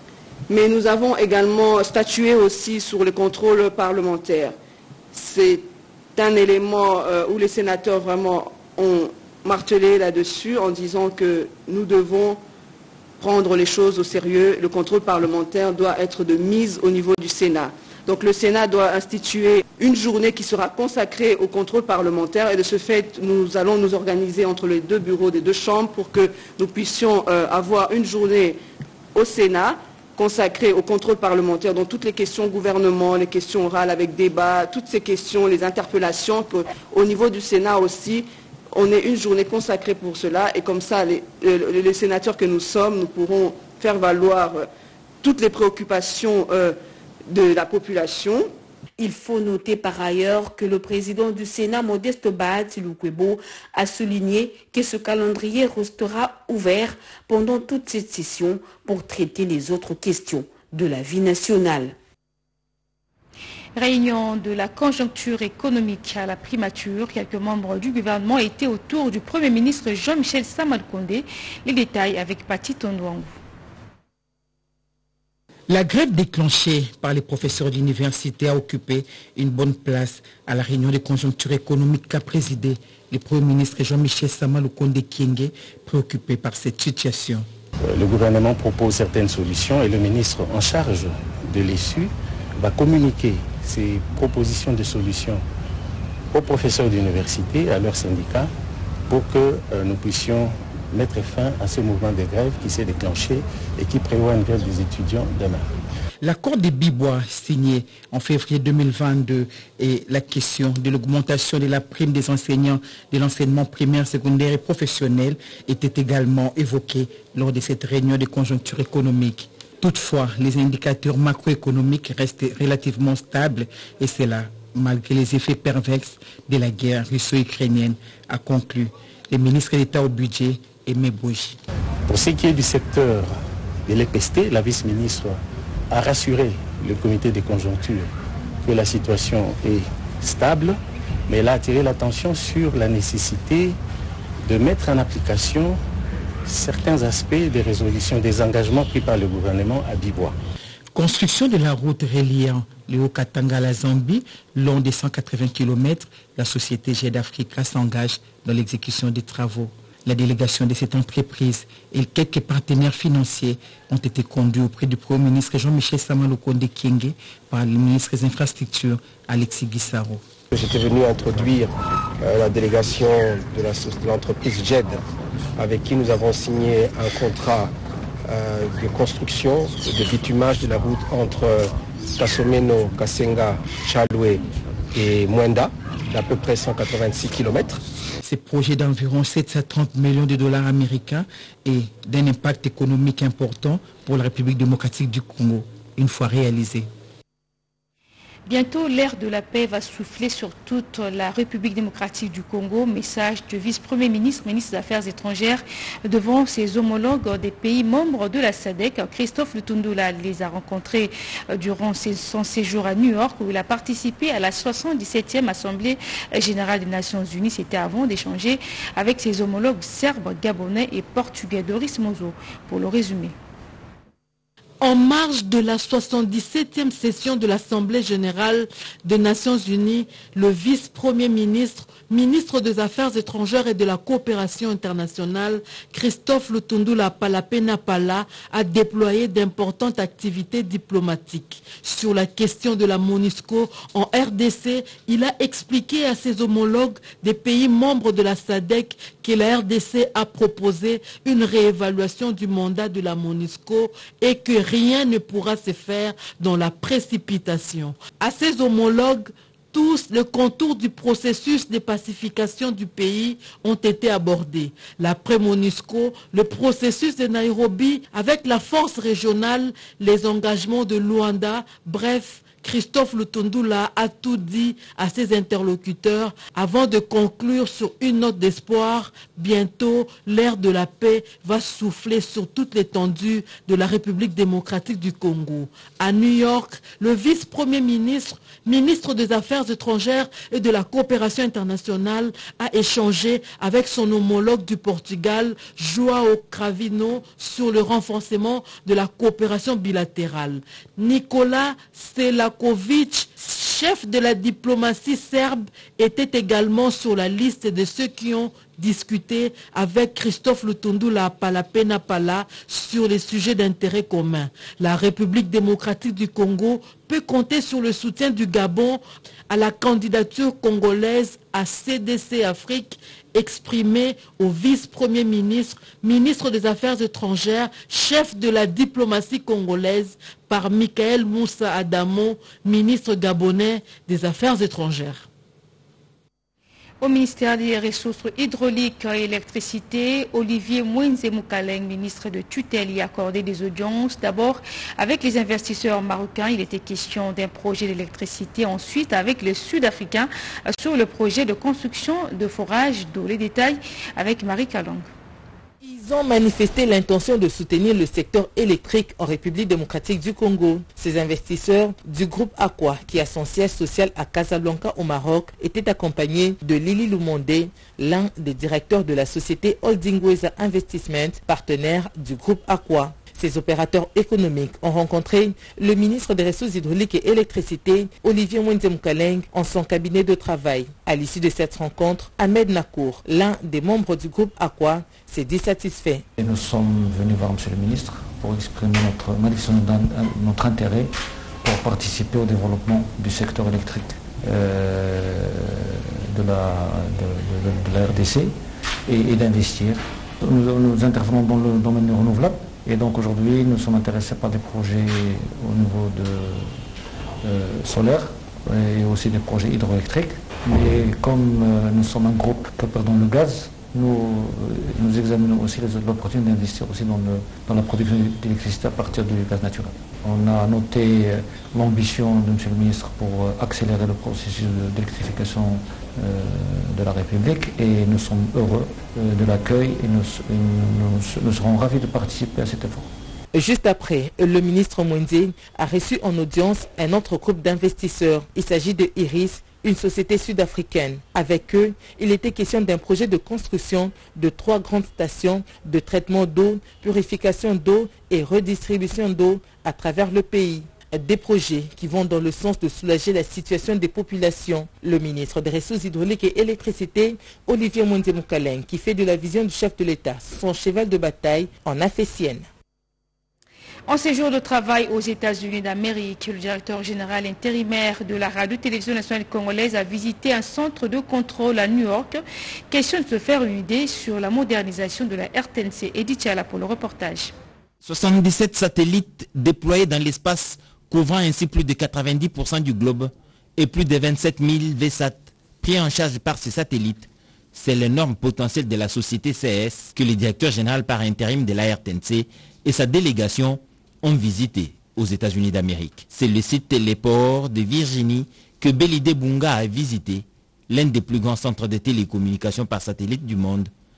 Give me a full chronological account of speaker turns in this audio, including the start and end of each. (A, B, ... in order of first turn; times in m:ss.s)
0:00.5-0:04.6 A
0:05.1-0:12.4 A
0:13.2-0:28.6 A
0:29.1-0:44.7 A
0:45.2-0:46.8 A
0:47.3-0:48.5 A
0:49.0-1:02.0 B
1:03.8-1:13.3 C
1:15.7-1:27.5 D
1:27.8-1:35.4 E
1:36.3-1:38.5 E
1:39.1-1:45.7 E
1:46.2-2:11.6 D
2:12.1-2:18.1 E
2:18.6-2:23.8 E
2:24.5-2:25.8 E
2:26.5-2:30.4 E
2:30.9-2:50.2 D
2:50.5-2:55.0 F
2:55.6-2:57.7 F
2:58.3-3:07.8 F
3:08.2-3:16.9 D
3:18.5-3:43.3 C
3:44.8-5:35.3 G
5:37.0-5:55.1 C
5:55.8-6:26.3 H
6:26.4-6:31.1 I
6:31.6-6:38.5 I
6:39.1-6:46.8 I
6:47.4-7:13.1 I
7:13.5-7:42.7 H
7:44.1-7:57.5 C
7:58.0-8:23.9 J